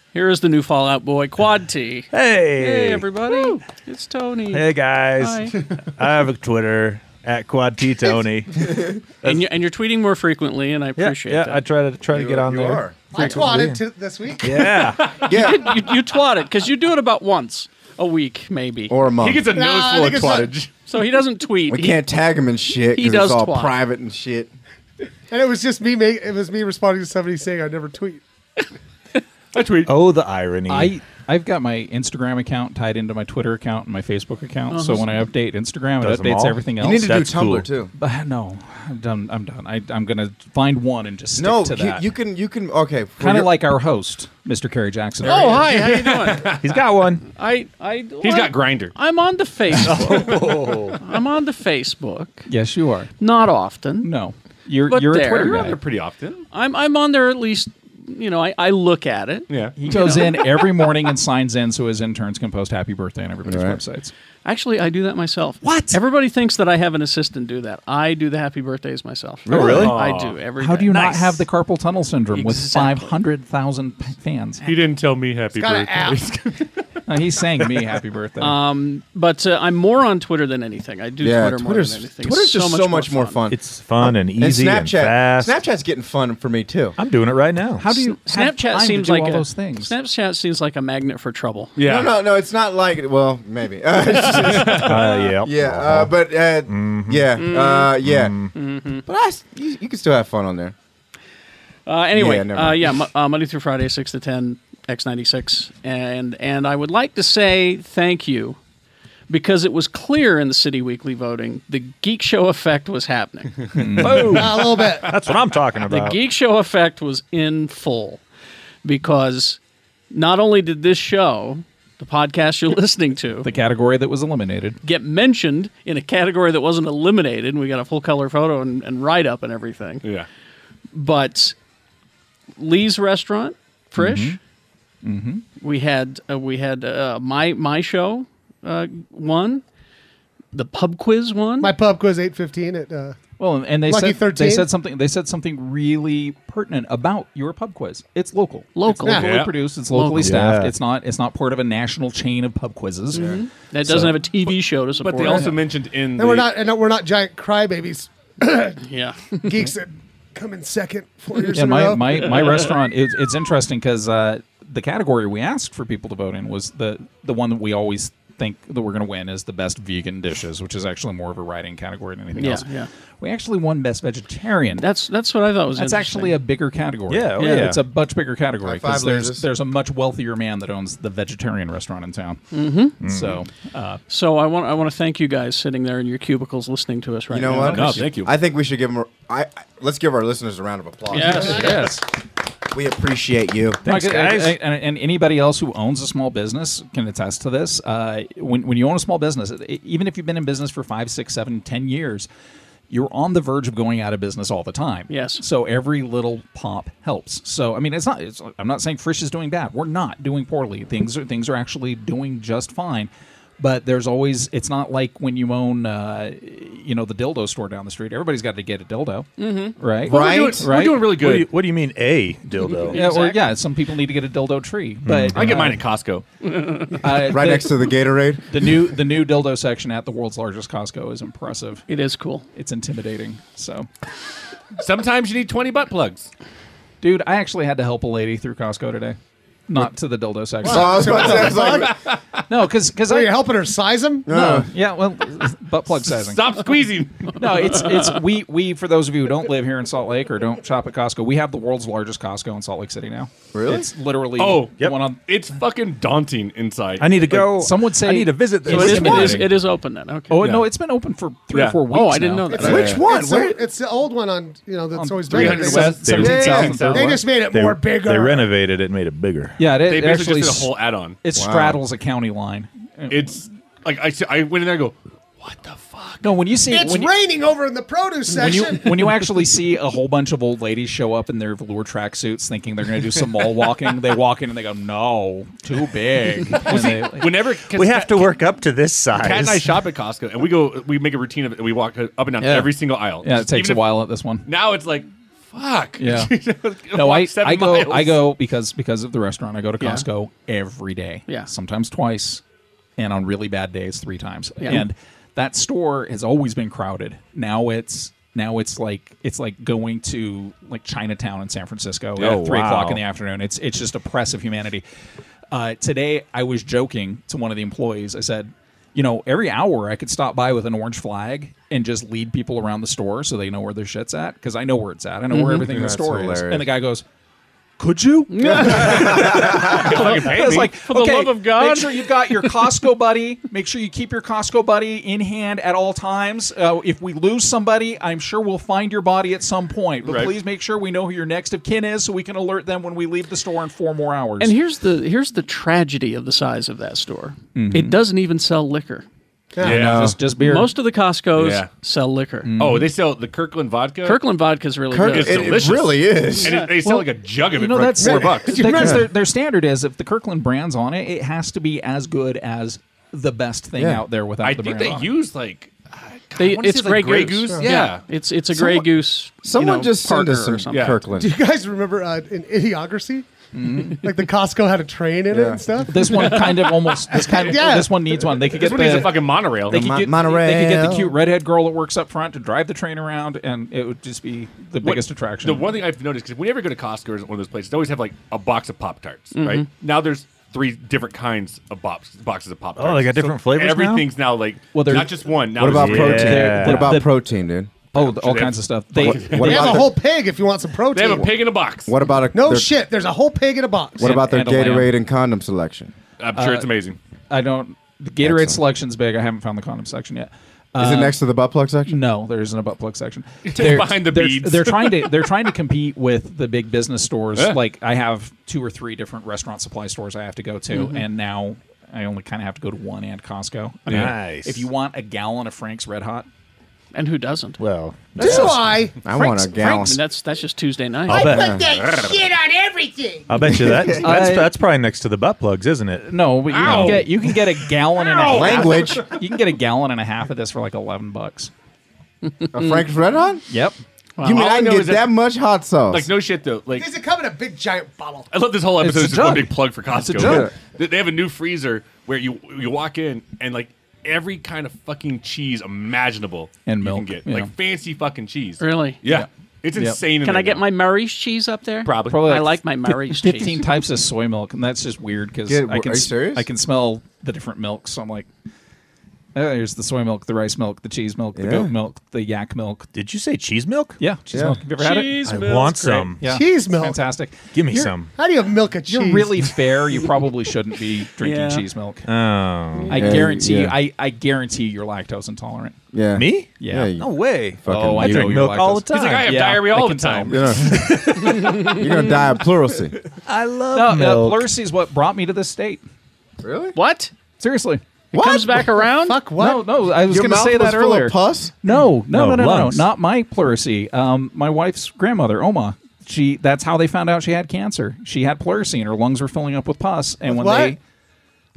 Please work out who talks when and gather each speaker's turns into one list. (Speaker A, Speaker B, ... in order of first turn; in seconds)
Speaker A: 0.1-5.5, 9.2-11.6, 15.2-18.9, 20.9-22.0, 22.9-23.8, 34.7-35.1, 45.2-46.7, 47.3-52.5, 53.2-54.1, 54.9-55.7, 56.5-60.7, 64.5-71.5, 72.3-73.1, 78.4-83.4, 88.2-91.7, 94.3-94.7, 97.4-97.9, 98.5-99.0, 101.9-108.6, 109.3-114.3, 115.9-118.2, 118.8-119.6, 120.1-123.5, 124.8-130.1, 130.9-131.6, 132.6-134.4, 135.6-139.6, 140.5-141.7, 148.8-150.3, 153.1-155.5, 158.8-159.5, 172.4-172.9, 174.8-176.4, 177.4-177.8, 182.5-183.0, 184.1-188.1, 191.1-192.0, 205.1-205.4, 219.4-219.8, 222.9-223.4, 226.4-227.0, 231.9-232.5, 258.7-260.4, 261.9-263.0, 299.8-300.1, 325.3-325.7, 328.3-332.7, 344.4-349.1, 350.4-352.5, 354.0-355.7, 366.4-371.0, 389.4-389.7, 420.7-421.0, 426.9-427.6, 429.2-431.3, 442.4-442.8, 444.2-444.4, 458.6-459.0, 460.2-463.6, 474.8-475.5, 481.2-481.7, 496.8-497.1, 498.1-499.2
Speaker B: 2.1-3.3, 4.5-9.5, 11.0-13.8, 14.4-15.2, 29.9-30.9, 36.0-37.7, 46.6-47.2, 49.8-51.0, 69.5-70.2, 83.5-85.5, 87.0-88.1, 94.6-96.1, 96.7-97.3, 98.0-98.5, 114.1-116.2, 150.1-150.8, 153.9-154.1, 177.1-177.8, 183.0-183.4, 193.8-194.6, 221.0-223.0, 225.1-225.7, 257.0-259.4, 266.0-266.5, 267.4-269.6, 287.7-289.8, 312.2-313.0, 392.8-394.1, 395.7-397.0, 423.9-424.7, 427.6-428.7, 431.1-431.6, 433.3-437.1, 472.9-474.0, 475.2-476.3, 477.5-478.1, 482.1-483.1, 486.1-489.4, 493.3-494.5, 502.1-502.9
Speaker C: 12.1-13.6, 15.2-15.9, 18.9-19.5, 21.7-24.5, 36.8-37.9, 41.4-43.5, 63.5-63.8, 69.5-69.9, 81.2-87.0, 91.9-98.5, 99.1-100.8, 102.1-103.0, 178.6-179.5, 187.3-192.0, 192.7-193.8, 220.0-220.7, 227.2-228.6, 240.6-242.0, 244.3-244.7, 253.5-253.9, 262.6-263.6, 266.2-266.7, 271.4-271.8, 325.7-326.7, 328.7-329.9, 349.6-350.2, 354.9-356.6, 358.8-359.1, 363.8-364.0, 368.5-368.9, 369.4-371.4, 375.3-375.6, 379.7-381.1, 395.6-397.7, 399.0-399.9, 401.9-402.7, 404.0-405.9, 408.2-408.6, 410.8-412.0, 428.2-428.5, 429.0-430.0, 431.3-431.6, 433.6-434.0, 438.3-439.1, 442.5-443.5, 444.2-446.1, 450.2-450.5, 465.5-466.5, 471.4-471.7, 474.3-474.6, 482.9-483.8, 485.9-487.1, 487.6-488.4, 490.3-493.0, 496.4-496.8, 498.1-498.7, 500.0-501.5
Speaker D: 13.1-14.8, 19.5-20.5, 25.3-28.2, 75.5-76.3, 114.3-115.1, 141.6-143.2, 143.8-144.7, 149.1-149.3, 156.2-158.8, 159.4-162.6, 191.3-191.7, 240.6-242.0, 243.0-244.3, 262.5-268.5, 276.7-279.1, 349.6-349.9, 358.0-359.1, 371.2-373.3, 374.0-378.5, 399.4-401.3, 402.3-404.1, 428.2-429.0, 431.1-433.3, 438.2-438.7, 446.8-448.3, 476.2-477.0, 478.1-479.5, 482.8-483.2, 499.0-499.8, 510.3-510.8
Speaker E: 19.2-20.7, 29.5-29.9, 45.3-46.7, 48.2-48.9, 55.4-56.5, 59.5-59.8, 69.9-70.4, 74.6-77.0, 77.6-77.8, 91.8-92.1, 94.4-94.9, 113.8-115.4, 149.1-149.5, 155.0-156.5, 187.6-188.3, 220.1-221.5, 225.3-226.2, 234.8-236.3, 241.2-242.4, 246.1-247.4, 254.4-257.1, 261.5-261.8, 265.3-267.2, 269.9-271.2, 273.1-276.4, 286.5-288.4, 289.1-298.2, 328.7-330.8, 340.0-340.3, 349.6-350.1, 351.4-351.7, 352.6-354.2, 355.0-358.7, 364.4-368.0, 370.7-371.0, 378.5-379.8, 384.8-396.4, 397.9-399.8, 400.9-401.9, 406.2-407.0, 413.5-415.3, 423.9-424.1, 436.5-437.4, 438.2-438.7, 444.3-445.2, 445.9-446.9, 448.3-460.6, 461.9-462.3, 474.8-475.8, 488.9-491.5
Speaker F: 30.7-37.1, 38.0-42.0, 43.2-45.7, 52.5-53.1, 54.0-55.8, 59.8-64.1, 65.6-66.0, 69.6-69.8, 70.6-74.6, 77.1-78.6, 87.8-89.9, 113.7-114.5, 123.4-124.8, 134.0-134.4, 135.0-135.4, 143.4-154.1, 161.5-172.7, 173.2-174.9, 175.7-184.0, 193.8-202.3, 202.9-221.2, 222.9-225.8, 227.0-227.8, 228.5-231.8, 232.6-233.9, 237.0-239.2, 239.7-241.4, 242.5-243.4, 244.3-246.4, 247.3-255.2, 257.3-259.6, 260.3-262.9, 264.9-267.2, 269.6-270.7, 271.2-273.4, 276.2-277.1, 278.3-287.3, 292.4-294.5, 296.0-296.3, 296.9-302.4, 303.0-314.8, 315.5-327.0, 327.8-344.6, 347.6-348.0, 349.7-350.7, 352.4-352.9, 356.8-365.1, 373.5-374.0, 375.9-385.8, 394.7-397.1, 397.9-399.8, 404.0-404.9, 406.3-406.7, 407.3-411.2, 411.9-426.3, 433.9-434.5, 436.0-441.5, 443.5-443.8, 448.8-450.5, 456.7-457.5, 459.1-460.0, 462.1-462.6, 463.1-468.3, 469.4-472.9, 474.0-478.1, 478.9-482.1, 482.9-485.8, 486.6-487.0, 487.7-491.3, 493.3-495.8, 497.4-497.8, 499.4-510.8